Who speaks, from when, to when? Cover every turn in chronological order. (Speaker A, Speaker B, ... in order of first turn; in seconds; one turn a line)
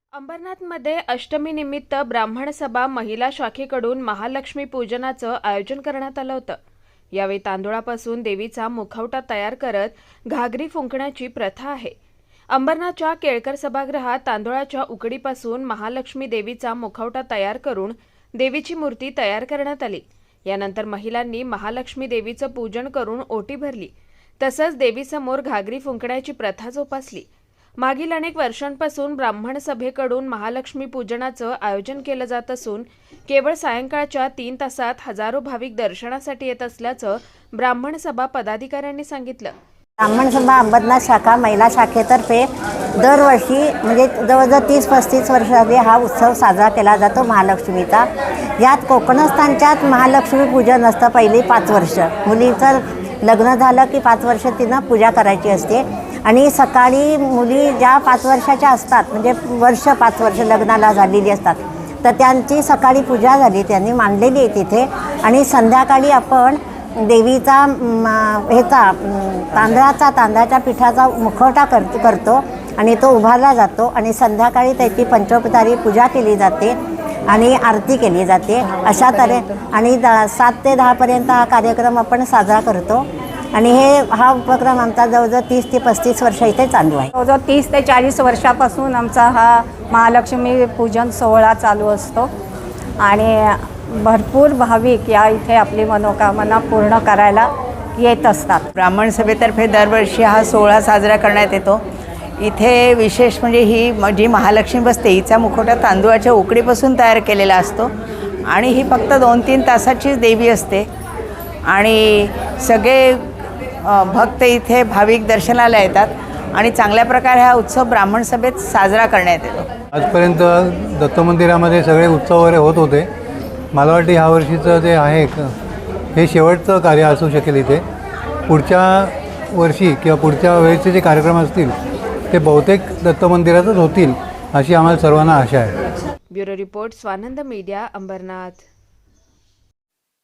Speaker A: 0.2-6.6
Speaker A: 7.2-11.9
Speaker A: 12.5-27.3
Speaker A: 27.8-39.5
Speaker B: 40.0-48.1
Speaker B: 48.6-76.8
Speaker B: 77.3-87.1
Speaker C: 87.2-92.3
Speaker C: 93.0-98.6
Speaker D: 98.8-101.8
Speaker D: 102.4-107.9
Speaker D: 108.5-110.9
Speaker D: 111.7-113.2
Speaker D: 113.9-119.7
Speaker E: 119.9-123.1
Speaker E: 123.7-125.4
Speaker E: 126.2-127.8
Speaker E: 128.5-131.7
Speaker E: 132.3-135.7
Speaker A: 136.3-138.7